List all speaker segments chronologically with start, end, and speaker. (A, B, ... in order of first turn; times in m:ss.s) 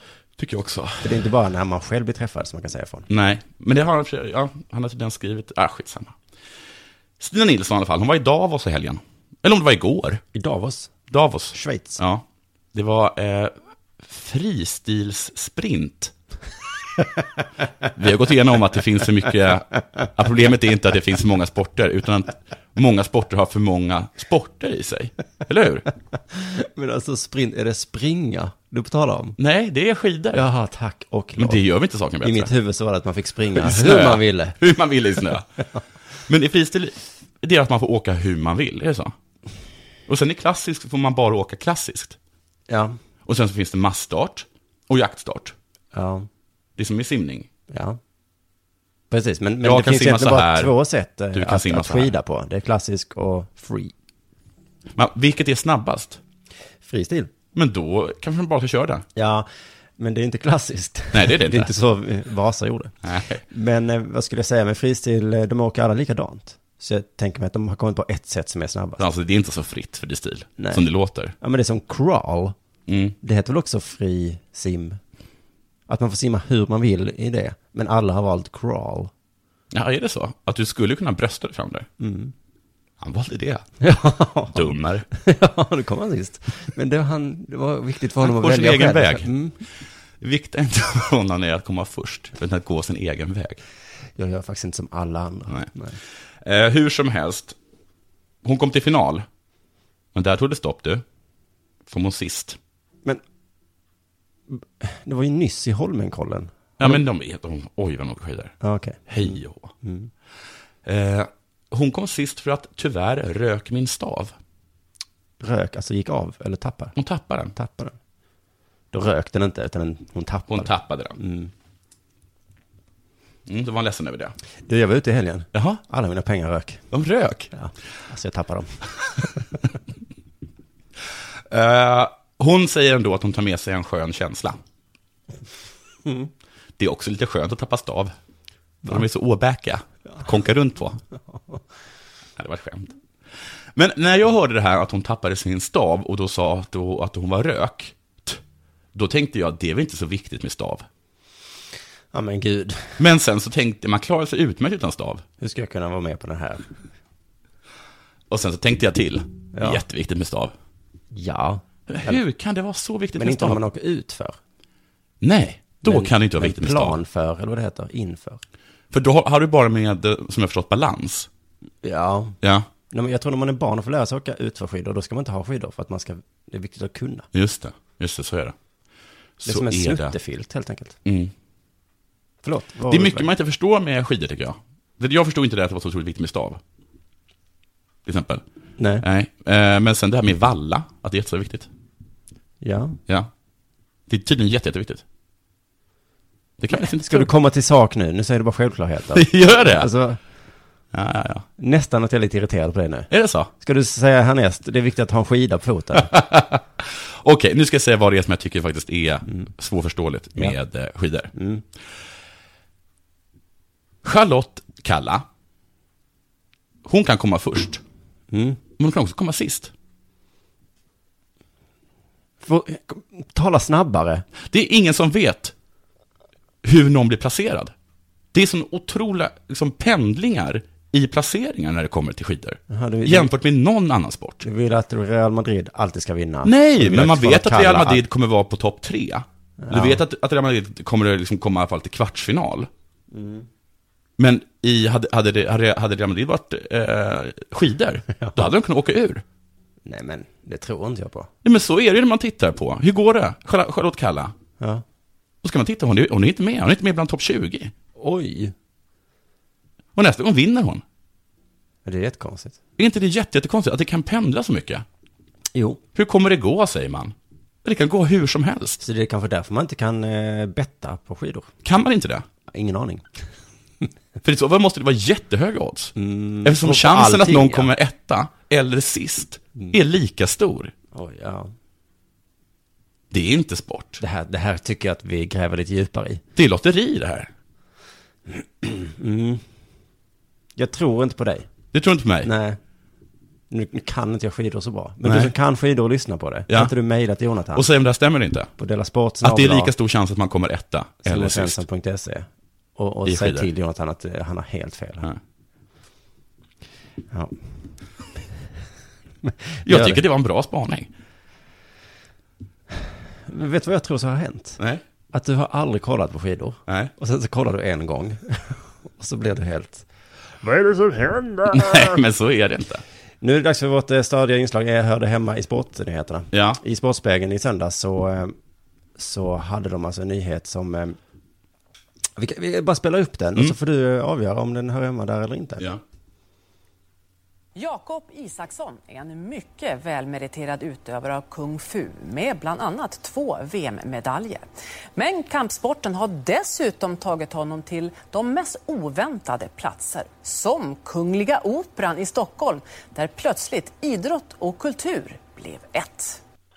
0:00.4-0:01.2 A
0:01.0-0:03.1 B
0:03.1-0:06.2 A
0:07.2-0:10.2 A
0:10.3-0:10.9 B
0:11.1-0:16.1 A
0:11.5-0:12.0 B
0:18.0-0:25.9 A
0:26.3-0:29.4 B
0:29.4-0:30.4 A
0:30.3-0:31.6 B
0:31.4-0:32.5 A
0:32.2-0:34.6 B
0:33.6-0:35.5 A
0:36.3-0:39.1 A
0:40.1-0:42.2 A
0:42.7-0:43.0 B
0:43.3-0:45.5 A
0:45.9-0:46.3 B
0:46.8-0:47.5 A
0:47.7-0:48.0 B
0:49.1-0:53.9 B
0:49.6-0:50.7 A
0:51.3-0:52.1 A
0:55.0-0:56.2 A
0:56.8-0:57.3 B
0:57.6-0:59.0 A
0:59.2-0:59.5 B
1:00.0-1:02.9 B
1:01.1-1:01.7 A
1:03.0-1:03.4 A
1:03.5-1:09.0 B
1:09.0-1:11.3 A
1:10.6-1:10.8 B
1:11.4-1:12.6 B
1:12.9-1:13.2 A
1:13.2-1:15.0 B
1:15.9-1:19.1 B
1:19.7-1:21.9 A
1:22.0-1:22.3 B
1:23.0-1:23.6 A
1:23.8-1:29.6 B
1:24.5-1:25.1 A
1:28.2-1:29.3 A
1:30.2-1:33.6 A
1:34.2-1:36.0 B
1:36.4-1:37.6 A
1:38.4-1:39.2 A
1:40.2-1:41.0 A
1:41.9-1:42.6 A
1:44.5-1:47.0 B
1:46.8-1:48.5 A
1:48.6-1:50.1 B
1:49.1-1:49.7 A
1:50.8-1:54.3 A
1:55.4-1:56.9 B
1:57.0-1:57.5 A
1:57.6-1:58.0 B
1:58.9-2:01.5 B
2:00.5-2:01.2 A
2:03.5-2:04.3 A
2:04.7-2:06.8 B
2:05.5-2:05.8 A
2:06.9-2:07.5 A
2:07.5-2:08.7 B
2:11.5-2:14.6 A
2:16.8-2:18.1 A
2:18.8-2:21.0 A
2:21.3-2:21.6 B
2:22.4-2:22.9 A
2:23.8-2:28.4 A
2:29.0-2:30.8 A
2:32.1-2:33.0 B
2:33.0-2:35.2 A
2:35.4-2:36.7 B
2:38.3-2:40.5 A
2:39.6-2:39.8 B
2:41.1-2:42.2 B
2:41.9-2:43.6 A
2:43.2-2:44.4 B
2:45.2-2:47.0 A
2:45.8-2:48.4 B
2:48.9-2:51.3 A
2:51.8-2:52.4 B
2:52.4-2:52.7 A
2:52.9-2:57.3 B
2:57.3-2:58.6 A
2:59.4-3:00.1 A
2:59.4-3:01.0 B
3:01.0-3:01.3 A
3:02.4-3:03.3 B
3:02.9-3:06.6 A
3:08.1-3:08.4 A
3:08.8-3:09.0 B
3:09.0-3:11.7 A
3:12.6-3:13.0 B
3:14.1-3:15.0 A
3:16.6-3:17.3 A
3:16.7-3:20.2 B
3:19.2-3:19.9 A
3:20.9-3:21.5 A
3:21.6-3:26.1 B
3:23.1-3:23.5 A
3:26.0-3:31.3 A
3:31.3-3:31.6 B
3:34.0-3:35.2 A
3:36.8-3:37.8 A
3:38.3-3:38.6 B
3:38.8-3:39.7 A
3:42.4-3:44.2 B
3:44.5-3:45.5 A
3:46.6-3:47.7 A
3:48.3-3:54.4 A
3:52.7-3:53.3 B
3:54.4-3:58.0 B
3:56.4-4:02.7 A
3:59.6-4:00.0 B
4:03.1-4:03.5 B
4:04.2-4:09.2 A
4:08.2-4:08.5 B
4:09.8-4:11.3 B
4:11.4-4:14.3 A
4:15.4-4:17.7 A
4:18.0-4:18.5 B
4:20.0-4:20.8 A
4:21.8-4:22.6 B
4:22.8-4:24.8 A
4:25.5-4:25.8 B
4:26.0-4:27.1 A
4:27.6-4:28.8 A
4:28.8-4:31.5 B
4:31.6-4:32.2 A
4:32.5-4:33.1 B
4:34.2-4:40.7 A
4:36.0-4:37.7 B
4:40.9-4:41.5 B
4:43.1-4:44.0 A
4:44.0-4:46.2 B
4:46.4-4:47.3 A
4:48.4-4:49.4 B
4:50.6-4:51.5 B
4:51.7-4:52.3 A
4:52.2-4:52.6 B
4:53.5-4:57.7 B
4:55.0-4:55.3 A
4:57.5-4:58.5 A
4:58.6-4:59.7 B
4:59.2-5:01.6 A
5:01.0-5:05.1 B
5:03.1-5:03.5 A
5:07.1-5:07.4 B
5:09.2-5:10.0 B
5:09.7-5:10.9 A
5:13.3-5:14.6 B
5:15.1-5:19.8 B
5:20.4-5:21.9 B
5:21.5-5:22.8 A
5:23.2-5:28.3 B
5:26.3-5:26.6 A
5:29.0-5:31.0 B
5:32.2-5:35.7 B
5:37.6-5:56.2 C